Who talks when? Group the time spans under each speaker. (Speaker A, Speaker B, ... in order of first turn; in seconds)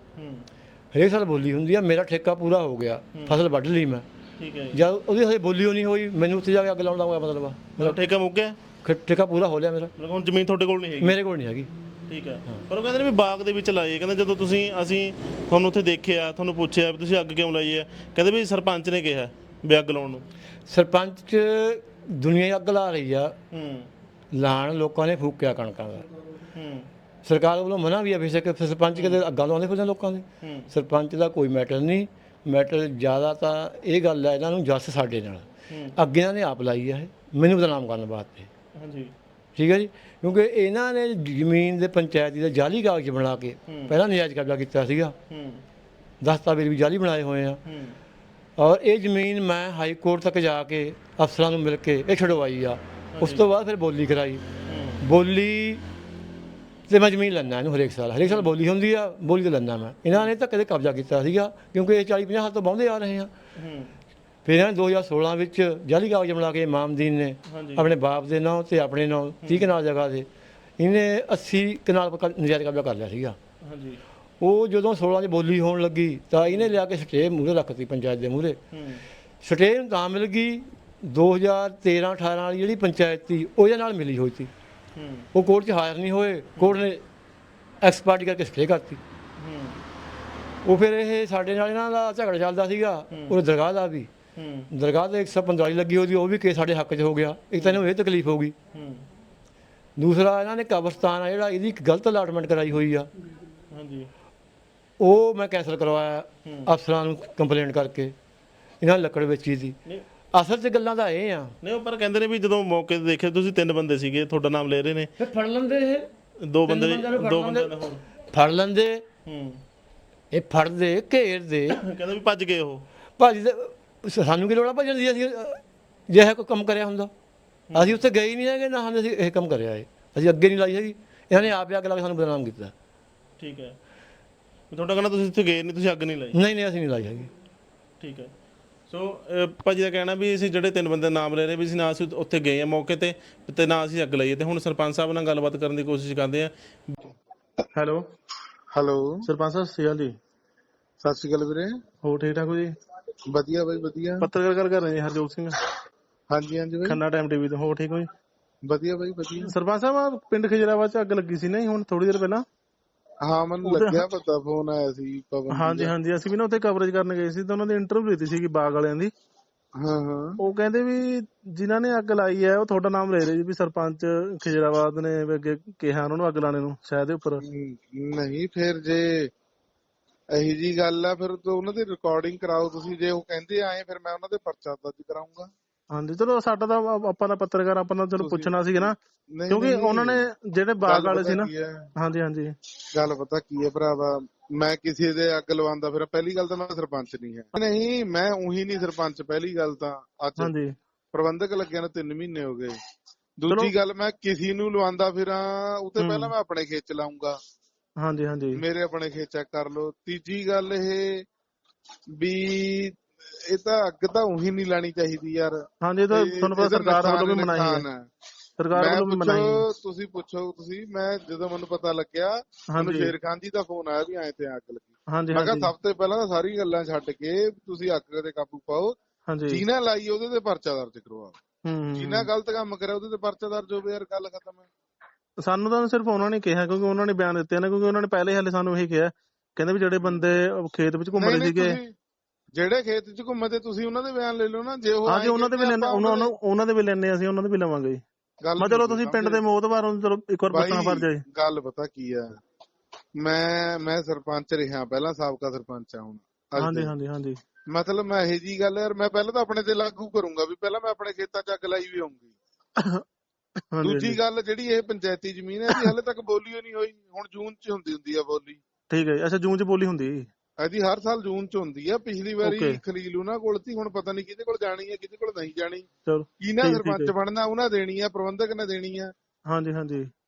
Speaker A: 0.1-0.5, 4.4-4.8, 7.8-8.6, 9.9-11.2, 12.1-20.2, 23.5-23.9, 26.5-26.9, 30.4-30.7, 35.7-35.9, 38.7-39.1, 43.7-43.9, 45.3-45.6, 47.6-48.0, 53.1-53.4, 54.6-55.0, 58.2-58.5, 63.5-63.9, 67.5-67.9, 69.4-69.7, 73.6-74.0, 76.5-76.7, 78.7-79.0, 85.0-85.3, 89.4-89.8, 94.3-94.7, 98.7-99.0, 103.7-104.1, 111.6-115.1, 116.4-118.0, 119.2-119.6, 121.7-122.8, 127.7-128.0, 133.4-133.8, 134.7-136.3, 138.0-138.3, 138.9-147.1, 147.7-148.1, 149.2-150.1, 152.0-152.7, 154.2-155.6, 156.8-158.1, 159.4-162.4, 163.6-164.0, 165.5-169.1, 170.4-177.4, 185.9-188.9, 189.5-192.5, 200.4-200.7, 206.0-206.3, 208.0-208.6, 215.8-217.8, 218.6-219.6, 222.7-223.1, 225.1-225.7, 229.3-229.6, 231.7-232.3, 235.4-241.8, 245.0-248.0, 248.6-251.2, 256.6-257.4, 262.8-263.0, 263.7-264.2, 268.9-270.3, 272.4-272.8, 276.1-277.1, 279.5-280.1
Speaker B: 0.9-4.0, 4.7-8.0, 8.8-9.9, 11.0-11.7, 20.7-23.3, 24.3-26.0, 27.2-38.5, 39.5-45.1, 46.2-47.6, 48.6-54.4, 55.0-55.8, 56.9-63.3, 64.4-70.3, 70.8-73.4, 74.4-78.6, 79.4-84.5, 85.3-87.0, 87.8-89.0, 90.6-94.1, 94.7-98.5, 100.0-103.1, 105.0-108.1, 108.8-109.8, 110.3-111.5, 115.2-116.1, 116.7-117.7, 118.3-119.0, 120.3-121.8, 123.2-127.1, 127.7-132.7, 136.3-137.3
Speaker C: 148.7-149.2, 151.0-151.8, 153.3-154.3, 156.3-157.0, 158.6-159.5, 163.2-165.9, 169.7-170.4, 177.4-179.3, 180.3-185.5, 188.2-190.2, 190.8-191.9, 192.9-200.5, 201.1-202.7, 203.4-207.3, 208.5-211.2, 212.2-218.0, 218.7-229.0, 229.5-231.4, 231.9-234.7, 241.1-241.9, 242.5-246.3, 248.4-249.4, 250.5-252.3, 253.2-256.9, 257.7-262.3, 263.8-268.6, 270.6-275.9, 276.4-279.1